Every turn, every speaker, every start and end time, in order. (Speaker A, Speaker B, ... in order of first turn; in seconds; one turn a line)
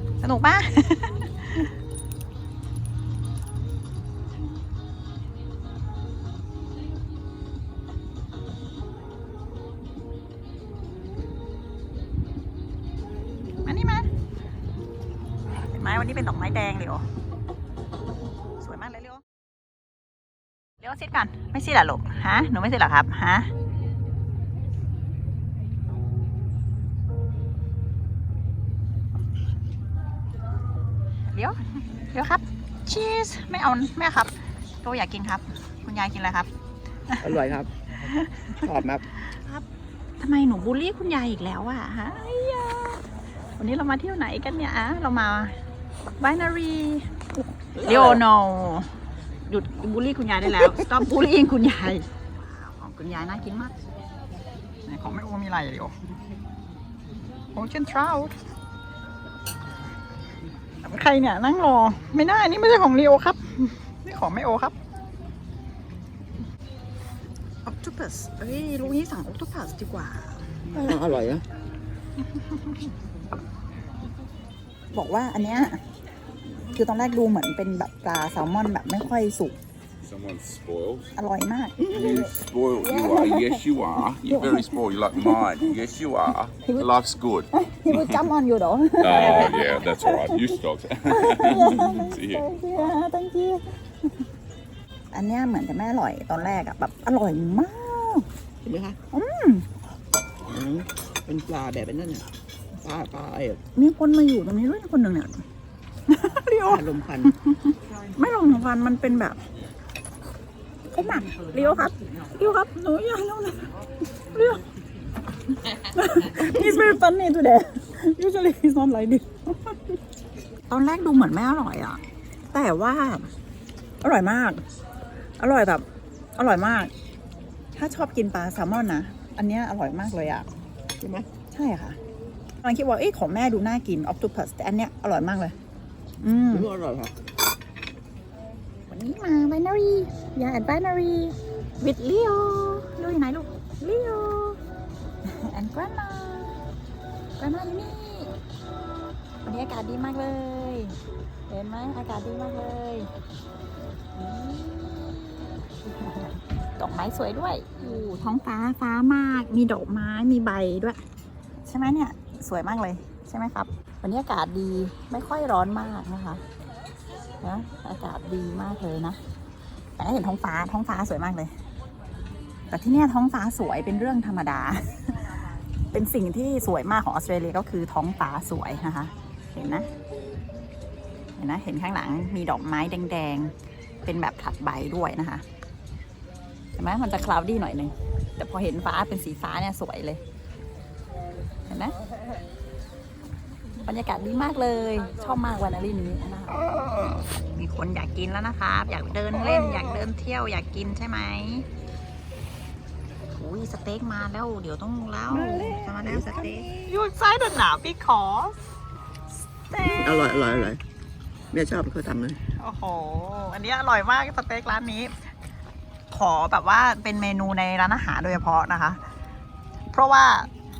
Speaker A: 0.2-1.7
Speaker A: 13.6-14.1
Speaker A: 15.7-17.1
Speaker A: 18.6-19.2
Speaker A: 20.8-23.5
Speaker A: 31.3-31.6
Speaker A: 32.1-36.5
Speaker B: 37.2-37.7
Speaker A: 38.0-38.7
Speaker B: 38.6-39.0
Speaker A: 39.3-39.6
Speaker A: 40.2-43.0
Speaker A: 43.6-45.6
Speaker A: 46.2-47.2
Speaker B: 47.8-48.2
Speaker A: 47.8-48.9
Speaker A: 49.5-53.8
Speaker A: 54.9-55.9
Speaker A: 57.5-58.3
Speaker A: 60.8-64.8
Speaker A: 67.7-71.0
Speaker B: 70.7-71.4
Speaker A: 74.9-75.8
Speaker A: 76.7-79.6
Speaker C: 80.0-81.1
Speaker A: 81.2-83.6
Speaker C: 81.9-88.2
Speaker A: 84.2-85.5
Speaker A: 86.7-86.9
Speaker A: 87.5-90.4
Speaker C: 89.0-92.4
Speaker A: 91.1-93.6
Speaker A: 95.1-98.3
Speaker B: 98.6-99.0
Speaker A: 99.1-99.7
Speaker B: 100.5-102.3
Speaker B: 102.8-103.6
Speaker A: 103.8-105.4
Speaker A: 106.1-109.4
Speaker B: 106.7-107.3
Speaker A: 110.9-113.7
Speaker A: 114.3-114.7
Speaker A: 115.7-119.8
Speaker A: 120.7-122.0
Speaker A: 122.5-123.3
Speaker A: 124.0-124.6
Speaker A: 125.4-125.8
Speaker A: 126.4-126.9
Speaker A: 127.8-130.5
Speaker B: 131.0-131.3
Speaker A: 131.5-132.0
Speaker A: 132.6-135.6
Speaker A: 136.2-136.7
Speaker B: 136.5-137.1
Speaker A: 138.9-144.6
Speaker A: 145.2-146.7
Speaker A: 147.4-148.3
Speaker A: 149.4-151.0
Speaker A: 151.5-153.1
Speaker A: 154.2-161.0
Speaker A: 161.7-166.4
Speaker A: 167.4-169.2
Speaker A: 170.0-171.5
Speaker A: 172.7-175.3
Speaker A: 175.9-179.9
Speaker A: 181.4-185.4
Speaker A: 186.8-190.2
Speaker A: 191.7-191.9
Speaker A: 193.8-196.6
Speaker B: 196.7-197.2
Speaker A: 197.5-201.7
Speaker A: 203.4-208.6
Speaker B: 205.3-206.8
Speaker A: 209.7-210.7
Speaker B: 209.8-210.8
Speaker B: 211.5-212.4
Speaker A: 212.6-215.2
Speaker A: 216.1-219.0
Speaker A: 219.9-220.5